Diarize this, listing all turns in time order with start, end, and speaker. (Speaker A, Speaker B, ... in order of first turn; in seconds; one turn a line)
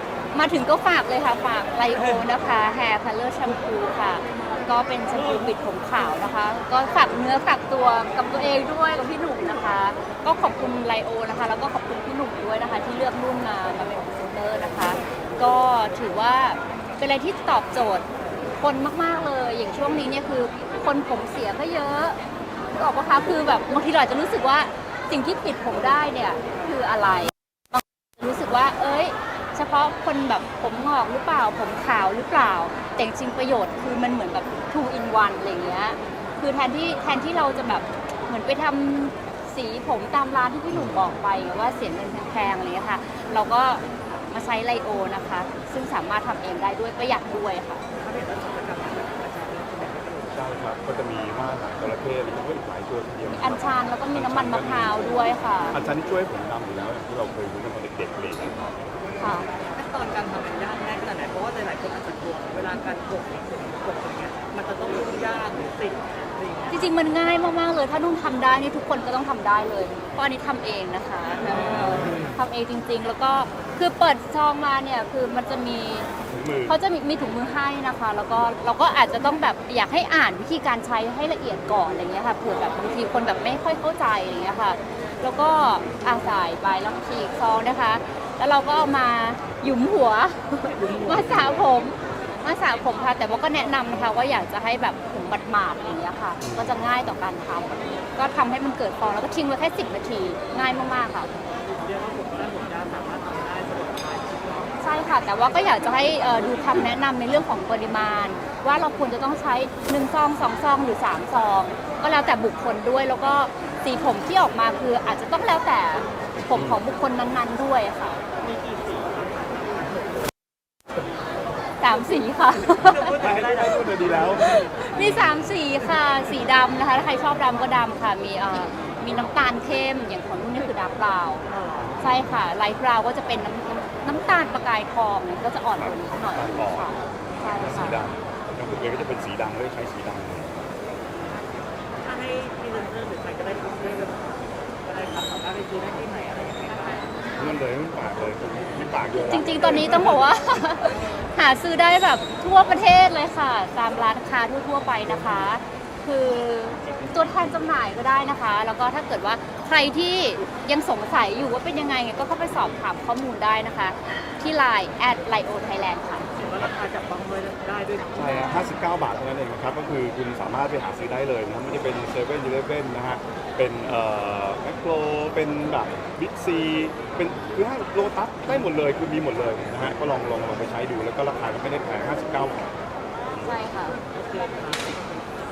Speaker A: 0.3-18.1
Speaker A: 18.6-22.2
Speaker A: 22.7-47.8
Speaker B: 40.7-41.1
Speaker C: 48.0-50.4
Speaker B: 50.3-55.0
Speaker A: 53.3-55.8
Speaker B: 55.7-58.7
Speaker A: 59.2-59.5
Speaker C: 59.7-66.8
Speaker A: 66.7-76.1
Speaker B: 76.3-76.8
Speaker A: 76.7-101.3
Speaker C: 90.7-91.6
Speaker B: 96.4-96.8
Speaker C: 101.7-104.7
Speaker A: 104.8-118.2
Speaker B: 116.5-116.8
Speaker C: 118.4-120.2
Speaker A: 121.8-123.1
Speaker C: 122.6-124.6
Speaker B: 123.2-125.5
Speaker A: 124.3-131.4
Speaker C: 131.5-131.9
Speaker A: 132.0-138.1
Speaker B: 135.8-140.5
Speaker C: 142.0-147.1
Speaker B: 147.4-150.4
Speaker A: 149.2-166.3
Speaker B: 156.8-157.6
Speaker C: 166.3-168.6
Speaker B: 168.1-182.7
Speaker A: 183.4-184.0
Speaker C: 184.1-185.1